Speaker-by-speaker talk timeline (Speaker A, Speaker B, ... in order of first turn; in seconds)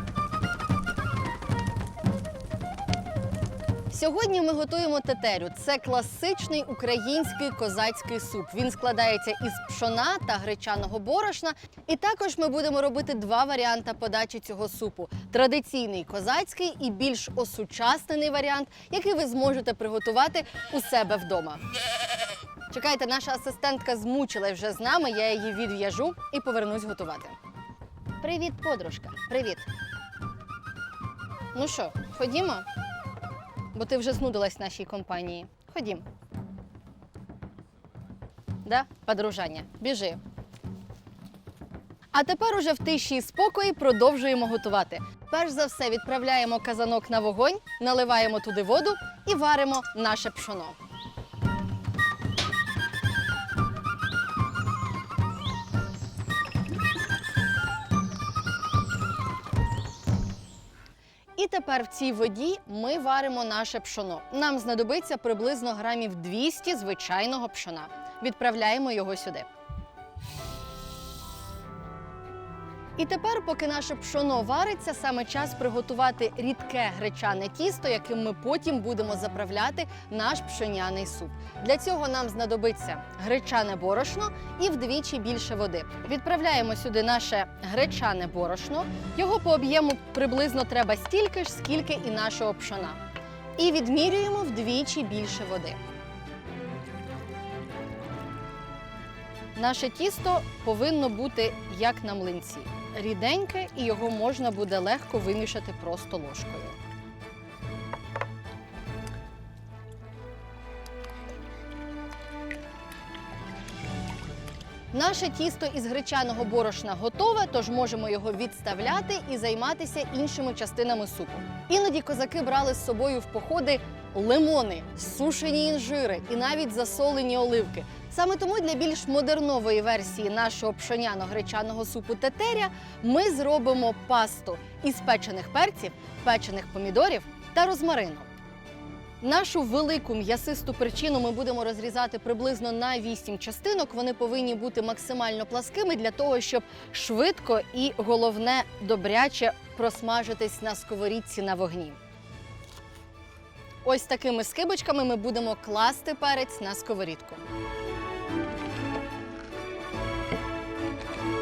Speaker A: 3.9-21.6, 22.7-27.4, 28.2-29.7, 31.5-32.7, 33.7-36.0, 38.6-40.2, 42.1-50.8, 61.4-69.5, 73.0-93.0, 93.6-95.8, 99.6-106.8, 114.9-138.3, 139.2-152.0, 153.8-157.4